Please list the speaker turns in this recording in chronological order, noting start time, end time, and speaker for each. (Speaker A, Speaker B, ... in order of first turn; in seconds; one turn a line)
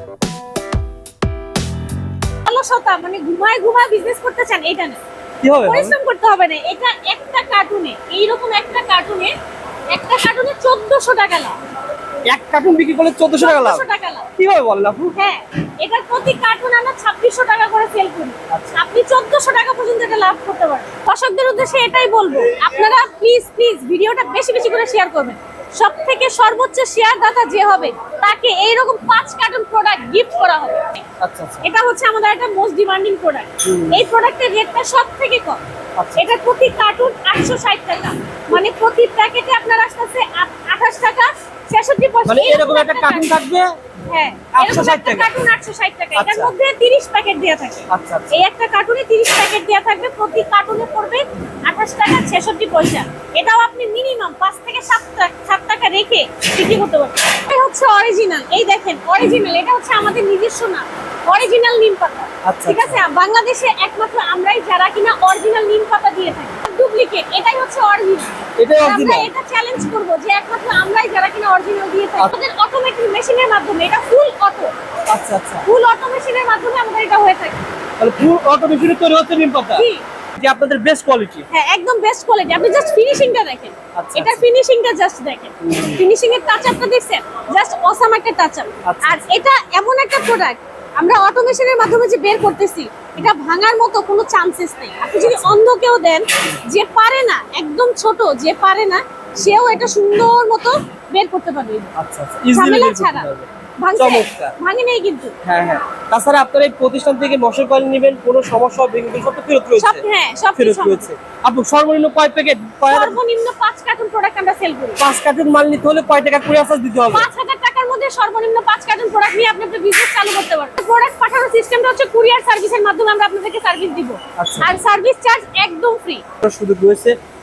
Speaker A: 2.5-5.0
Speaker B: 5.4-6.0
Speaker A: 5.7-9.3
Speaker A: 9.9-11.5
Speaker B: 12.3-13.8
Speaker A: 13.4-14.3
Speaker B: 14.4-15.2
Speaker A: 15.2-31.0
Speaker B: 18.5-18.8
Speaker B: 31.2-31.6
Speaker A: 31.6-35.6
Speaker B: 33.6-34.0
Speaker B: 36.0-36.2
Speaker A: 36.2-43.3
Speaker B: 42.2-43.6
Speaker A: 44.1-74.7
Speaker B: 44.5-45.3
Speaker B: 46.1-46.5
Speaker B: 47.9-48.4
Speaker B: 62.5-63.0
Speaker B: 68.6-69.3
Speaker B: 75.1-75.7
Speaker A: 75.7-77.6
Speaker B: 78.0-81.5
Speaker A: 79.8-80.0
Speaker A: 81.5-101.9
Speaker B: 84.0-84.5
Speaker B: 85.6-86.0
Speaker B: 88.9-89.2
Speaker B: 95.2-95.6
Speaker B: 102.0-104.5
Speaker A: 102.5-103.3
Speaker A: 103.8-105.4
Speaker B: 105.5-110.0
Speaker A: 109.8-111.1
Speaker B: 110.6-113.2
Speaker A: 112.9-115.0
Speaker B: 115.0-117.3
Speaker A: 117.1-126.2
Speaker B: 124.4-124.7
Speaker B: 126.4-127.2